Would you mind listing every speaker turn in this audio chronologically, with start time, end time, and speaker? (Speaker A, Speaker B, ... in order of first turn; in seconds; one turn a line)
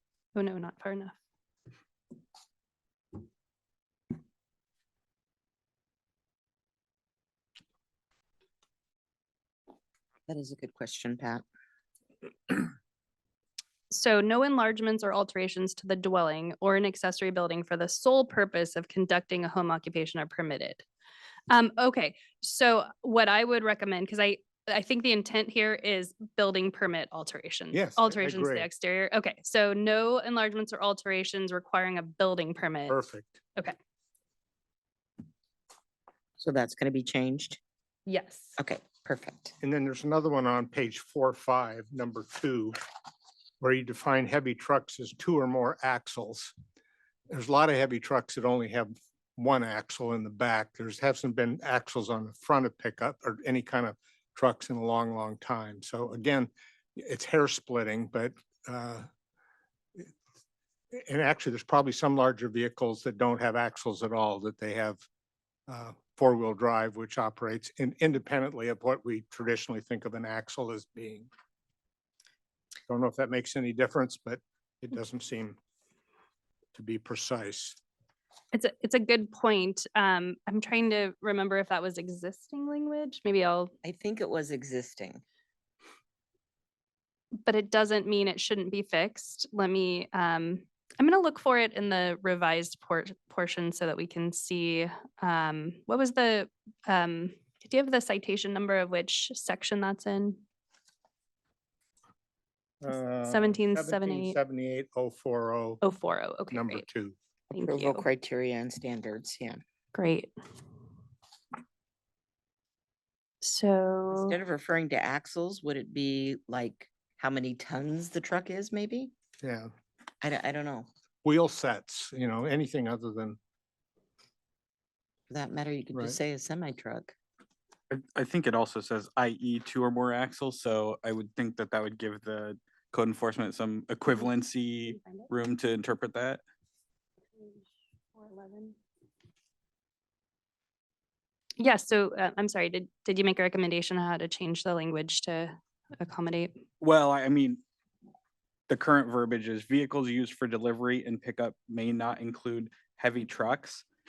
Speaker A: 0.3-1.2
Speaker B: 10.3-11.4
Speaker A: 13.9-20.9
Speaker A: 21.5-33.0
Speaker C: 27.7-28.7
Speaker C: 32.9-33.4
Speaker B: 36.4-37.6
Speaker A: 38.1-38.6
Speaker B: 38.6-39.5
Speaker C: 39.6-42.8
Speaker C: 43.6-46.5
Speaker C: 47.3-59.1
Speaker C: 61.0-65.0
Speaker C: 65.7-71.3
Speaker C: 72.9-75.6
Speaker C: 76.8-77.8
Speaker A: 78.5-83.7
Speaker B: 83.8-85.2
Speaker A: 87.5-100.4
Speaker C: 102.8-105.8
Speaker A: 103.2-104.4
Speaker A: 105.8-106.9
Speaker C: 106.5-107.2
Speaker A: 107.5-108.1
Speaker B: 107.5-109.6
Speaker A: 109.9-110.3
Speaker A: 113.4-114.4
Speaker B: 114.1-119.1
Speaker C: 119.4-119.7
Speaker B: 120.2-120.9
Speaker C: 121.2-123.4
Speaker B: 125.3-127.1
Speaker D: 127.9-136.4
Speaker A: 134.9-135.3
Speaker A: 137.4-137.6
Speaker A: 138.2-138.8
Speaker A: 141.6-146.6
Speaker D: 146.8-147.6
Speaker D: 148.7-153.8